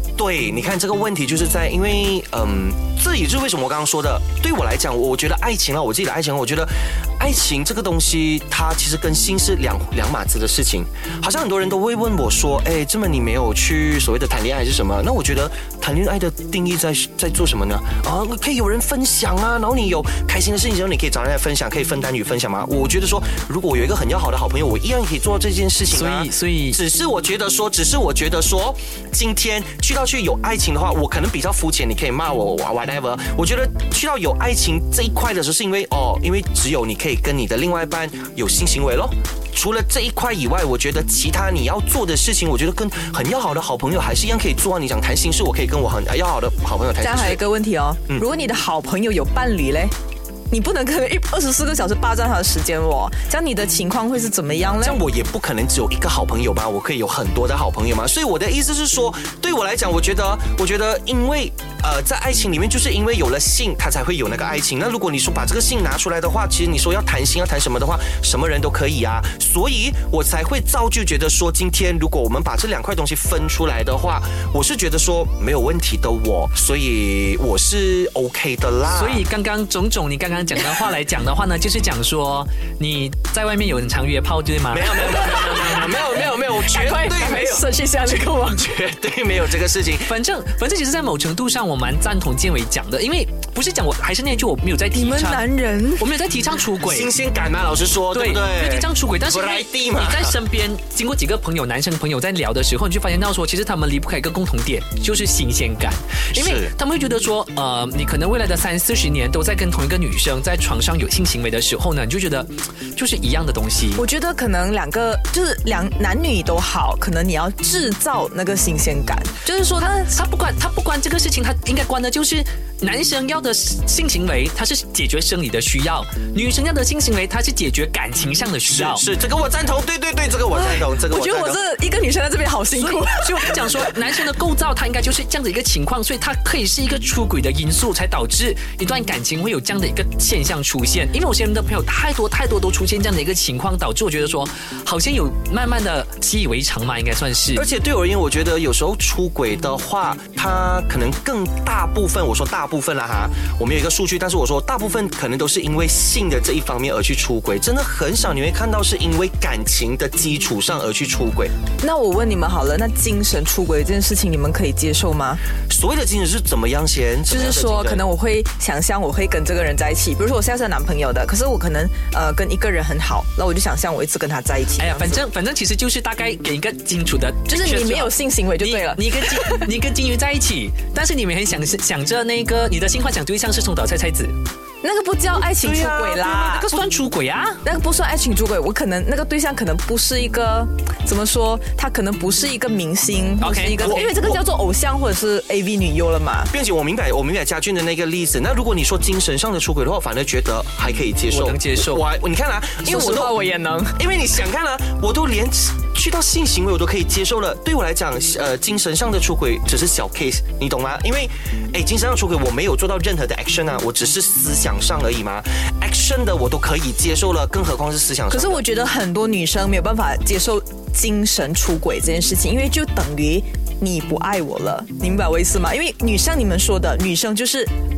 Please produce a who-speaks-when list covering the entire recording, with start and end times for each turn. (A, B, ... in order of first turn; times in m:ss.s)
0:00.2-0:47.4 A
0:25.9-0:26.8 B
0:47.0-0:49.9 C
0:50.5-0:55.0 C
0:54.8-1:19.2 A
1:18.9-1:25.1 B
1:24.7-1:30.1 A
1:25.0-1:28.7 C
1:30.0-1:35.4 B
1:34.9-1:36.1 C
1:36.0-1:37.1 B
1:36.8-1:40.4 A
1:38.1-1:54.0 B
1:46.3-1:46.7 A
1:54.0-2:00.1 C
1:59.8-2:09.0 B
2:08.6-2:11.6 A
2:10.5-2:13.9 C
2:12.7-2:27.6 B
2:27.5-2:41.5 A
2:41.8-2:45.4 C
2:45.7-2:48.0 A
2:47.3-2:55.2 C
2:54.8-3:04.4 B
2:57.5-2:59.7 C
3:04.8-3:06.7 C
3:05.5-3:07.6 B
3:07.6-3:16.5 C
3:13.4-3:14.1 B
3:13.8-3:14.4 A
3:16.5-3:23.4 A
3:21.3-3:22.0 B
3:22.8-3:24.0 C
3:24.0-3:38.6 A
3:38.3-3:47.7 C